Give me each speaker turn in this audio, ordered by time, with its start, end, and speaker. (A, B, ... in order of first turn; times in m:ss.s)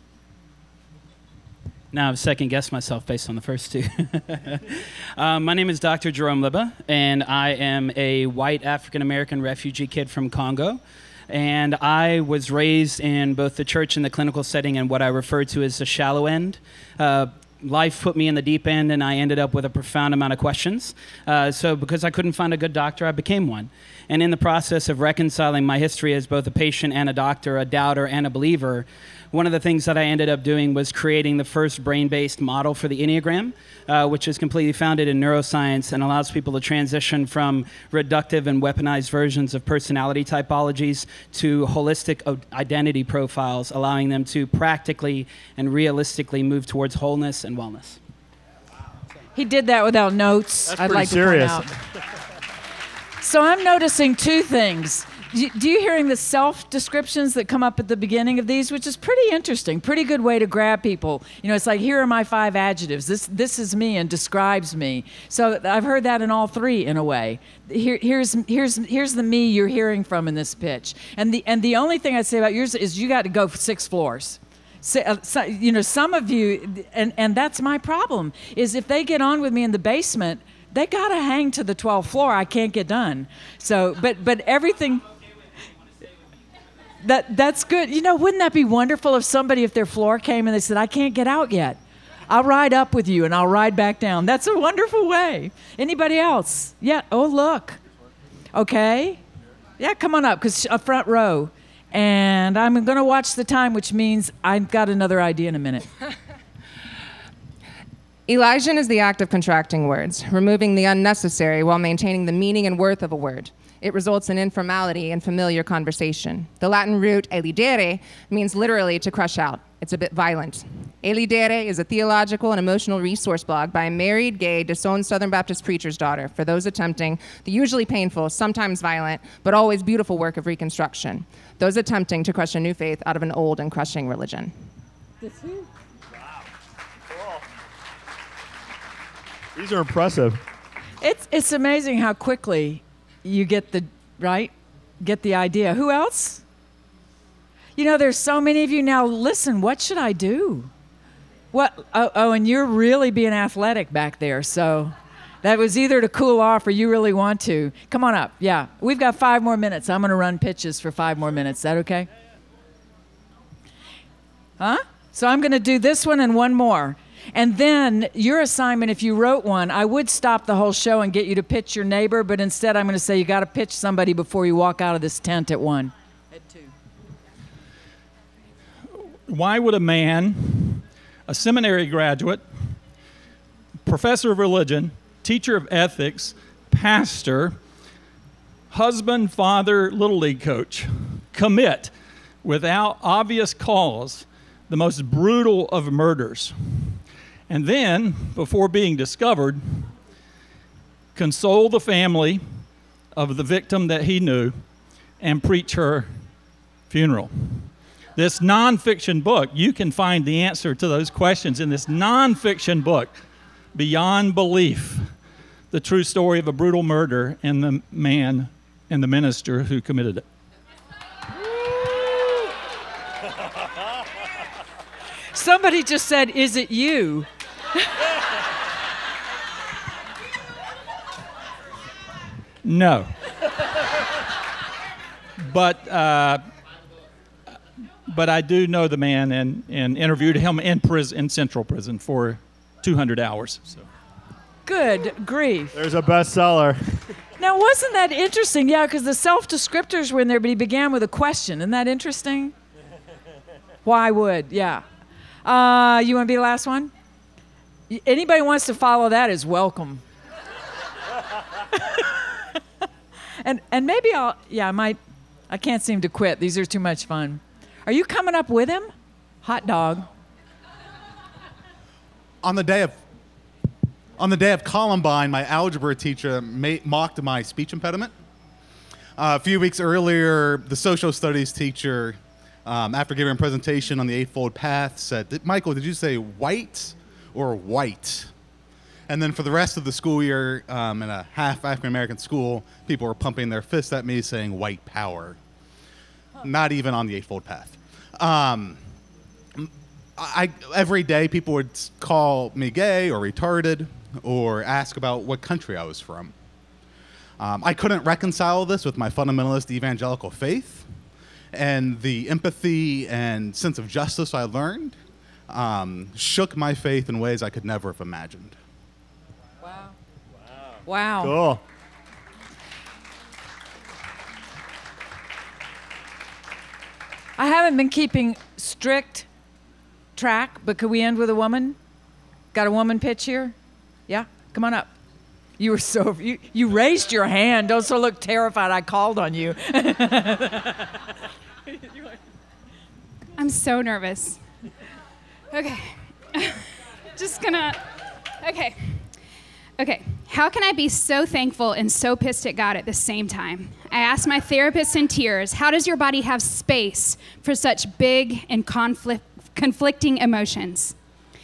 0:01.9-0:48.0 A
0:49.3-0:51.7 B
0:50.7-0:51.6 C
0:53.2-1:25.1 B
1:27.0-1:37.8 B
1:38.5-1:39.2 B
1:39.8-1:45.9 B
1:48.3-2:14.5 D
2:15.2-2:15.7 B
2:17.1-2:17.4 C
2:19.5-2:20.4 C
2:21.0-2:26.4 B
2:27.8-2:30.7 B
2:31.5-2:42.1 B
2:44.6-2:56.7 B
2:59.3-3:02.8 E
3:03.8-3:07.6 E
3:08.7-3:19.9 E
3:21.1-3:22.6 E
3:23.1-3:24.6 E
3:25.2-3:26.3 E
3:26.9-3:33.2 E
3:33.7-3:35.1 E
3:35.7-3:40.2 E
3:41.5-3:42.4 B
3:45.3-3:47.3 B
3:52.6-3:53.2 E
3:55.4-3:56.4 E
3:58.1-4:03.8 E
4:04.6-4:05.8 B
4:05.7-4:07.1 C
4:07.4-4:12.5 B
4:13.8-4:14.8 B
4:15.4-4:16.9 B
4:17.9-4:20.0 B
4:21.7-4:22.5 B
4:23.4-4:25.0 B
4:25.5-4:30.1 B
4:32.4-4:33.0 F
4:34.2-4:38.1 F
4:39.2-4:48.3 F
4:49.1-4:55.4 F
4:56.4-4:58.8 F
4:59.6-5:06.3 F
5:07.4-5:10.9 F
5:11.5-5:15.0 F
5:15.5-5:18.6 F
5:19.6-5:19.9 B
5:20.8-5:21.4 B
5:21.2-5:21.6 C
5:27.4-5:29.3 B
5:30.2-5:31.8 B
5:32.5-5:33.5 B
5:34.1-5:34.9 B
5:35.6-5:40.9 B
5:43.4-5:44.4 G
5:45.5-5:49.1 G
5:49.8-6:00.9 G